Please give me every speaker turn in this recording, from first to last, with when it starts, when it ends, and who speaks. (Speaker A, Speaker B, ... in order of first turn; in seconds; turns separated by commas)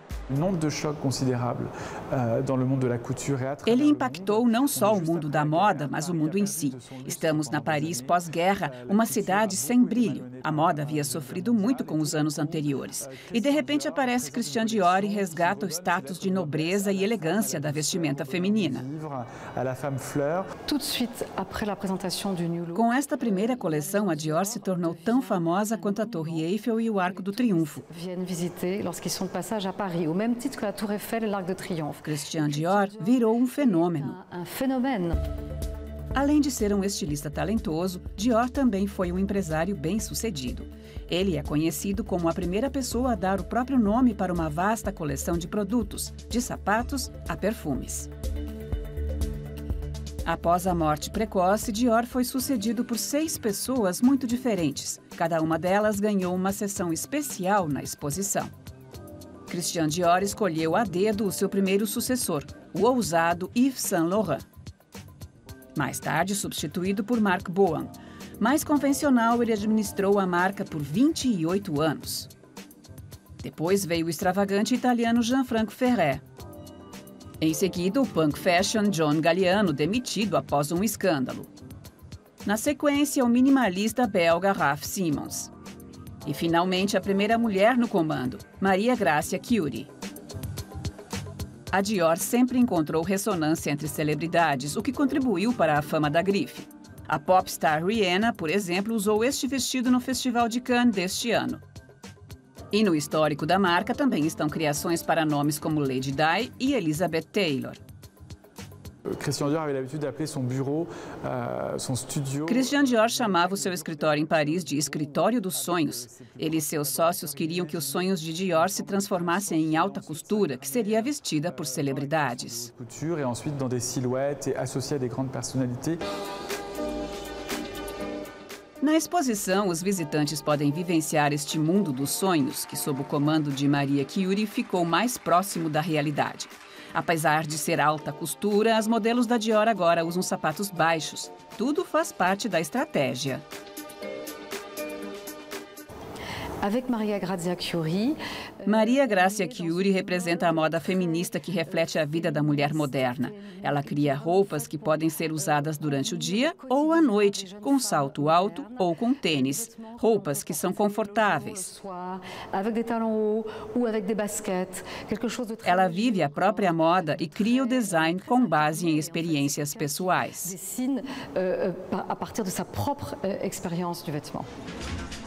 Speaker A: 0.3-20.5, Speaker B: 3.6-18.9, Speaker C: 20.7-35.2, Speaker B: 22.7-27.9, Speaker B: 32.0-34.2, Speaker B: 36.1-48.1, Speaker B: 50.2-58.5, Speaker B: 59.5-64.5, Speaker B: 65.8-72.3, Speaker B: 73.4-76.2, Speaker B: 77.4-81.5, Speaker B: 82.5-85.5, Speaker B: 86.2-89.9, Speaker B: 91.7-101.6, Speaker B: 102.7-107.8, Speaker A: 109.2-126.0, Speaker B: 112.5-122.7, Speaker B: 128.8-143.4, Speaker C: 146.6-174.5, Speaker B: 148.7-161.7, Speaker B: 165.6-170.6